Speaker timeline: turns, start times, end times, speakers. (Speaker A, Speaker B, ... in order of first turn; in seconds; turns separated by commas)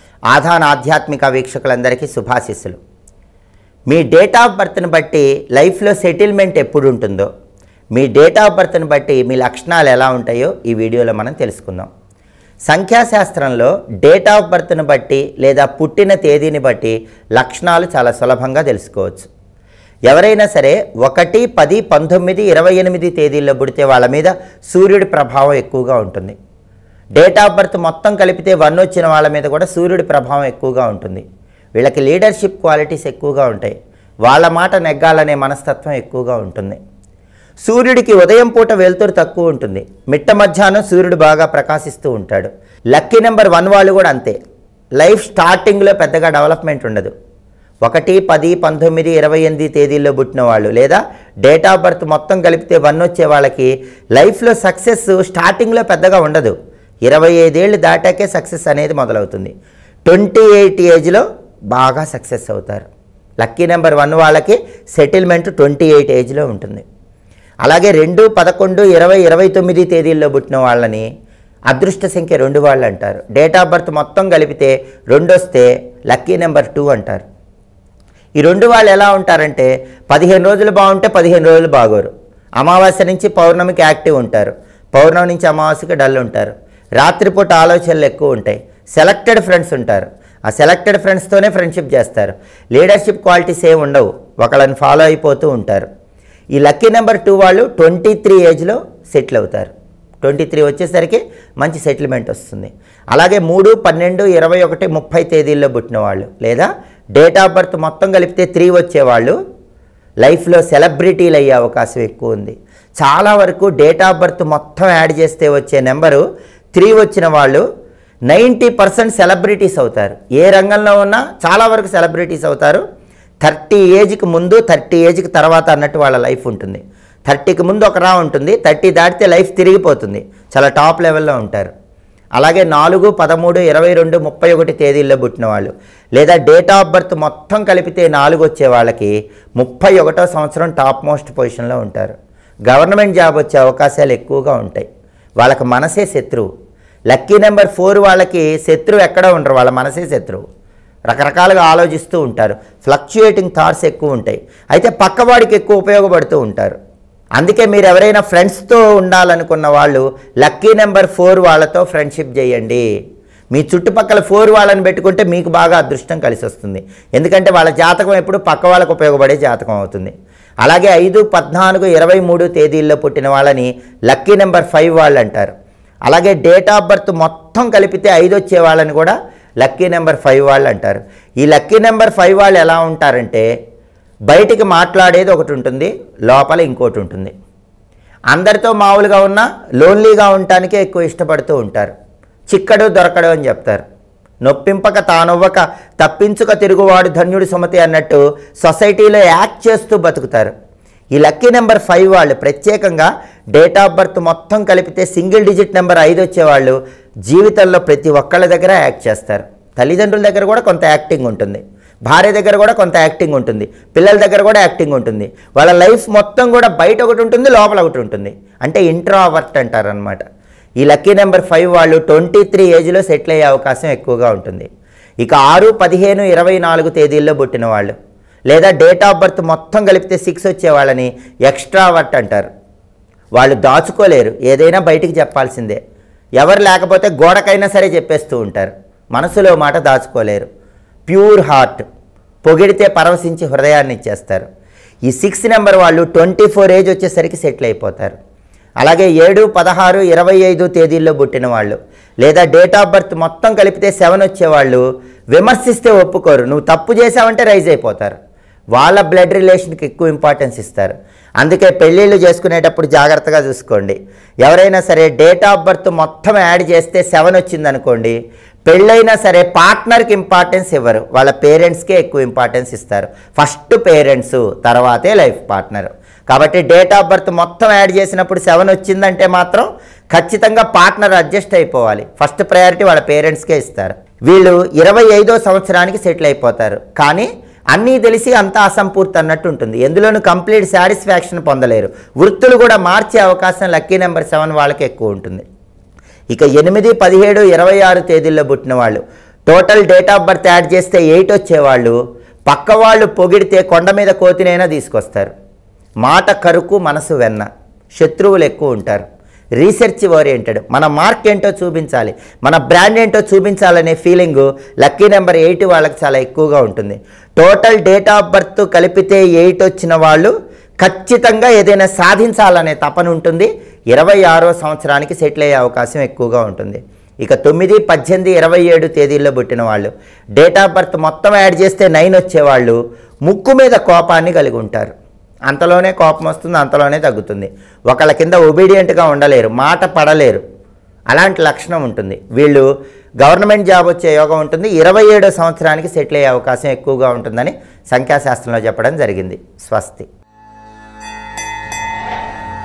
Speaker A: 0.3-2.8, Speaker A: 3.9-7.3, Speaker A: 7.9-11.9, Speaker A: 12.7-19.3, Speaker A: 20.1-26.3, Speaker A: 27.1-31.2, Speaker A: 31.8-36.8, Speaker A: 37.6-44.4, Speaker A: 45.0-47.1, Speaker A: 47.8-56.5, Speaker A: 57.0-59.5, Speaker A: 60.0-62.9, Speaker A: 63.4-66.8, Speaker A: 67.6-71.0, Speaker A: 71.7-77.2, Speaker A: 78.4-95.9, Speaker A: 96.5-109.3, Speaker A: 110.2-116.2, Speaker A: 116.7-117.6, Speaker A: 118.3-122.8, Speaker A: 123.4-131.7, Speaker A: 132.4-142.1, Speaker A: 142.7-144.8, Speaker A: 145.4-146.5, Speaker A: 147.1-150.4, Speaker A: 151.1-156.8, Speaker A: 157.4-162.8, Speaker A: 163.5-170.1, Speaker A: 170.6-175.5, Speaker A: 176.1-183.4, Speaker A: 184.3-187.3, Speaker A: 188.3-191.9, Speaker A: 192.5-193.8, Speaker A: 194.4-200.5, Speaker A: 201.1-220.2, Speaker A: 220.8-224.7, Speaker A: 225.2-227.9, Speaker A: 228.5-232.5, Speaker A: 233.3-235.8, Speaker A: 236.4-240.5, Speaker A: 241.1-241.8, Speaker A: 242.4-244.4, Speaker A: 245.1-248.2, Speaker A: 248.8-258.1, Speaker A: 258.7-295.4, Speaker A: 296.3-305.3, Speaker A: 306.0-309.0, Speaker A: 309.6-334.9, Speaker A: 335.5-340.4, Speaker A: 341.1-342.7, Speaker A: 343.2-350.1